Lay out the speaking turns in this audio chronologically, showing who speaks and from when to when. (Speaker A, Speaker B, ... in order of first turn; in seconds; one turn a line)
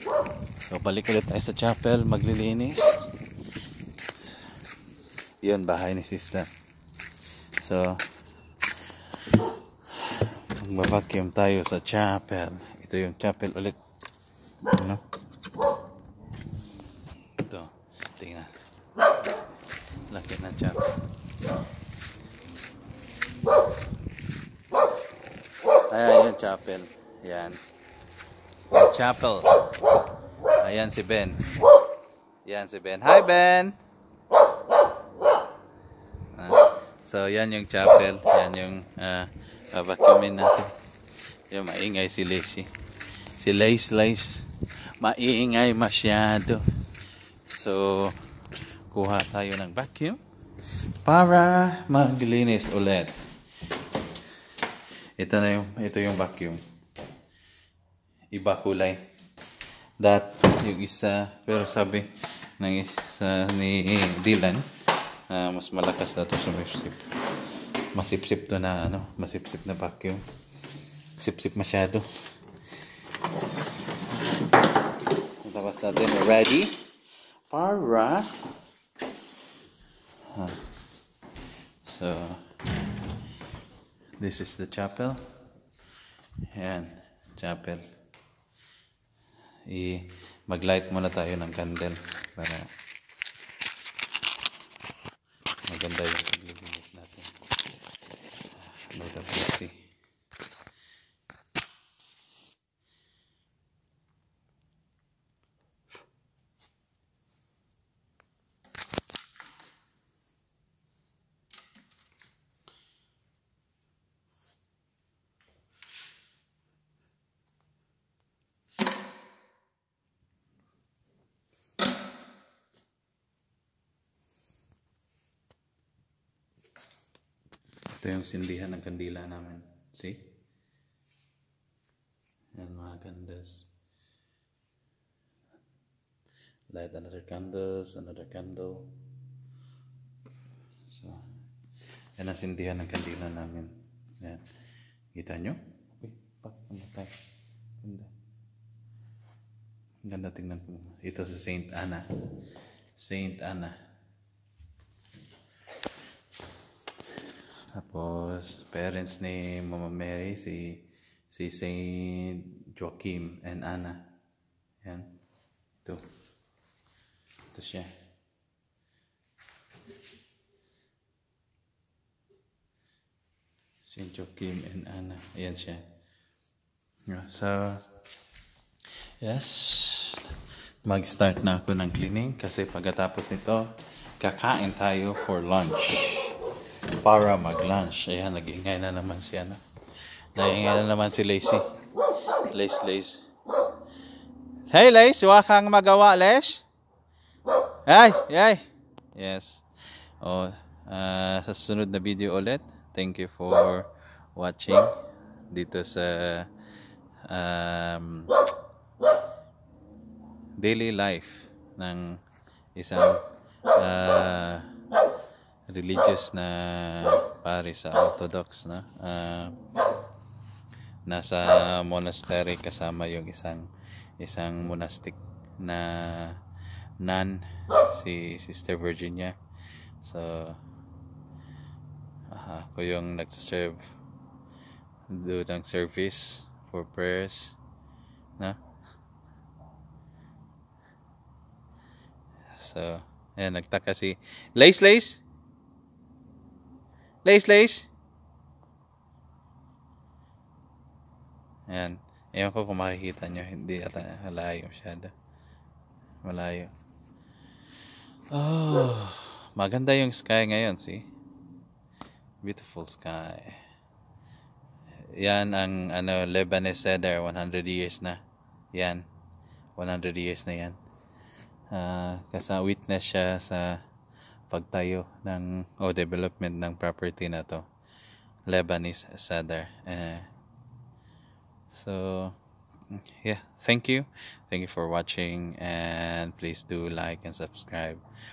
Speaker A: 0.7-3.1
Speaker A: 5.4-6.5
Speaker A: 7.6-8.1
Speaker A: 9.9-13.8
Speaker A: 14.7-15.0
Speaker A: 17.4-18.5
Speaker A: 20.1-20.9
Speaker A: 25.8-27.6
Speaker A: 28.7-29.7
Speaker A: 30.4-31.5
Speaker A: 32.4-33.8
Speaker A: 36.3-40.7
Speaker A: 41.5-42.7
Speaker A: 43.3-46.6
Speaker A: 47.5-48.2
Speaker A: 48.9-50.2
Speaker A: 50.9-53.2
Speaker A: 55.2-56.6
Speaker A: 58.3-59.0
Speaker A: 60.0-64.7
Speaker A: 65.3-67.2
Speaker A: 67.9-70.2
Speaker A: 71.2-72.1
Speaker A: 75.1-76.8
Speaker A: 77.5-78.5
Speaker A: 80.3-80.7
Speaker A: 81.8-82.5
Speaker A: 84.2-85.3
Speaker A: 86.5-87.8
Speaker A: 89.7-92.7
Speaker A: 95.7-97.4
Speaker A: 98.5-99.9
Speaker A: 127.9-130.3
Speaker A: 132.6-133.7
Speaker A: 136.7-138.9
Speaker A: 140.9-141.2
Speaker A: 142.2-144.4
Speaker A: 145.1-147.2
Speaker A: 147.8-148.1
Speaker A: 150.0-152.1
Speaker A: 152.9-153.8
Speaker A: 157.7-164.1
Speaker A: 164.8-165.1
Speaker A: 167.5-167.9
Speaker A: 173.8-175.8
Speaker A: 177.1-177.8
Speaker A: 179.2-186.4
Speaker A: 187.0-189.6
Speaker A: 190.3-191.7
Speaker A: 192.3-193.2
Speaker A: 194.7-196.7
Speaker A: 197.8-199.6
Speaker A: 200.2-204.9
Speaker A: 205.5-206.5
Speaker A: 207.2-208.5
Speaker A: 210.6-212.2
Speaker A: 212.7-214.7
Speaker A: 215.7-219.6
Speaker A: 221.1-226.4
Speaker A: 227.0-229.3
Speaker A: 230.0-230.6
Speaker A: 232.3-233.9
Speaker A: 235.1-237.6
Speaker A: 242.5-245.2
Speaker A: 247.2-247.9
Speaker A: 251.7-255.1
Speaker A: 256.2-256.7
Speaker A: 258.3-261.1
Speaker A: 262.4-263.6
Speaker A: 265.1-268.2
Speaker A: 268.7-269.0
Speaker A: 269.8-270.8
Speaker A: 271.7-273.8
Speaker A: 274.5-277.6
Speaker A: 278.5-280.3
Speaker A: 281.7-282.4
Speaker A: 282.9-288.0